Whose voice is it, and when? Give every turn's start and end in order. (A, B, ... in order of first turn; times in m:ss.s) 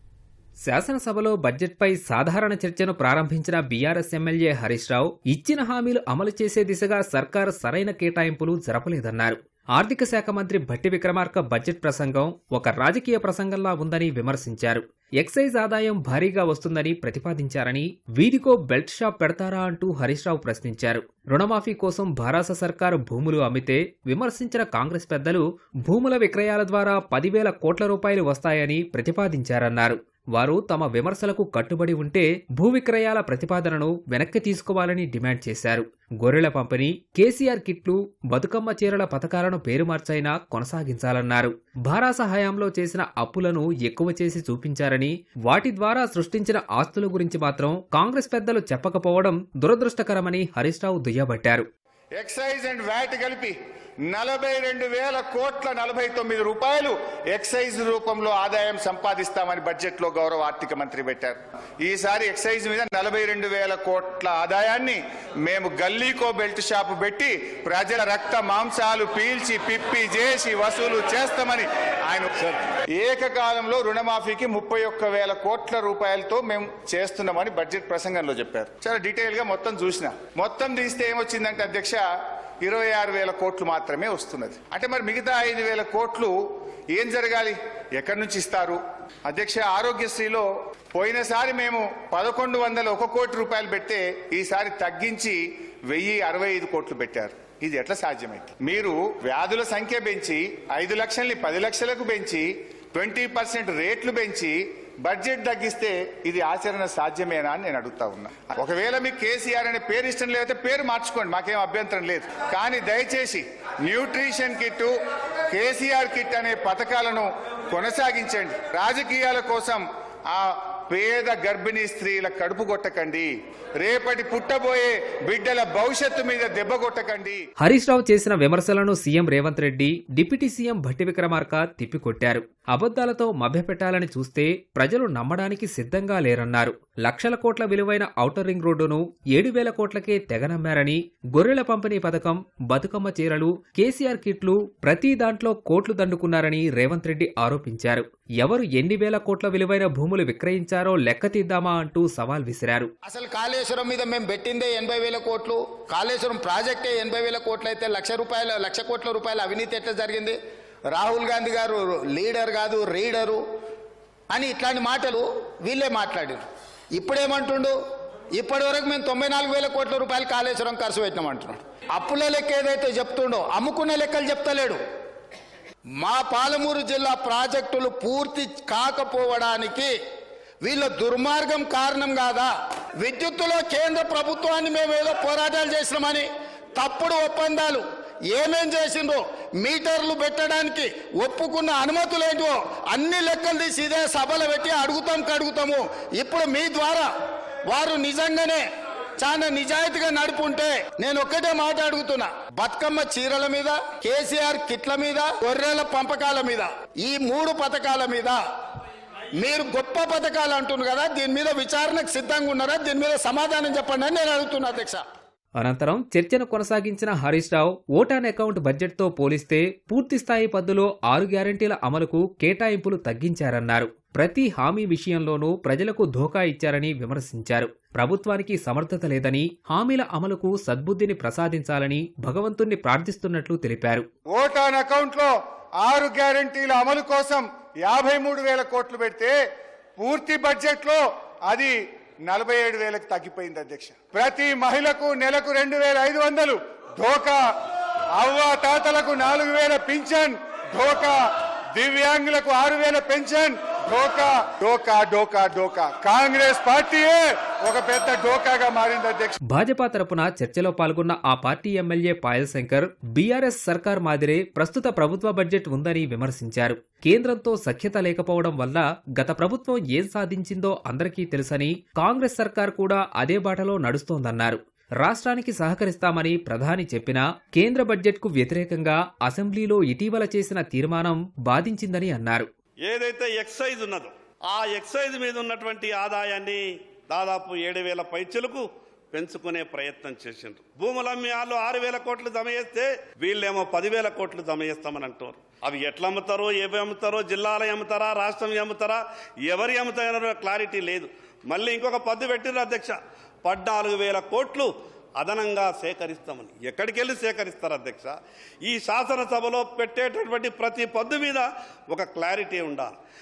0:00.6-0:51.6 A
0:52.2-0:53.5 B
0:54.1-1:09.4 B
1:09.0-1:11.6 C
1:10.0-1:10.7 B
1:13.0-1:22.0 B
1:22.6-1:26.3 B
1:26.9-1:28.7 B
1:27.2-1:27.5 C
1:29.3-1:30.4 B
1:31.0-1:35.2 B
1:34.8-1:35.3 C
1:35.9-1:42.4 B
1:43.0-1:44.5 B
1:43.2-1:43.7 C
1:45.0-1:53.2 B
1:50.2-1:50.8 C
1:52.8-1:53.4 C
1:54.1-1:54.5 C
1:54.5-1:54.8 B
1:55.5-1:56.5 B
1:56.0-1:57.2 C
1:57.7-1:58.0 B
1:58.0-1:58.6 C
1:58.6-1:59.8 B
2:00.3-2:03.0 B
2:03.8-2:04.7 B
2:04.1-2:06.6 C
2:05.3-2:07.3 B
2:07.6-2:32.9 A
2:33.0-2:40.4 C
2:40.9-2:43.4 C
2:44.3-2:46.4 C
2:46.9-2:47.8 C
2:48.4-2:54.8 C
2:52.0-2:52.5 B
2:56.0-3:00.0 C
3:00.6-3:17.1 C
3:17.7-3:18.6 C
3:19.3-3:28.4 C
3:29.4-3:35.0 C
3:35.6-3:54.0 A
3:54.3-3:55.3 B
3:55.8-3:59.3 B
4:00.0-4:01.0 B
4:01.5-4:01.8 B
4:02.3-4:07.4 B
4:03.3-4:04.1 C
4:08.2-4:11.2 B
4:11.8-4:19.3 B
4:19.5-4:42.5 A
4:42.8-5:12.9 C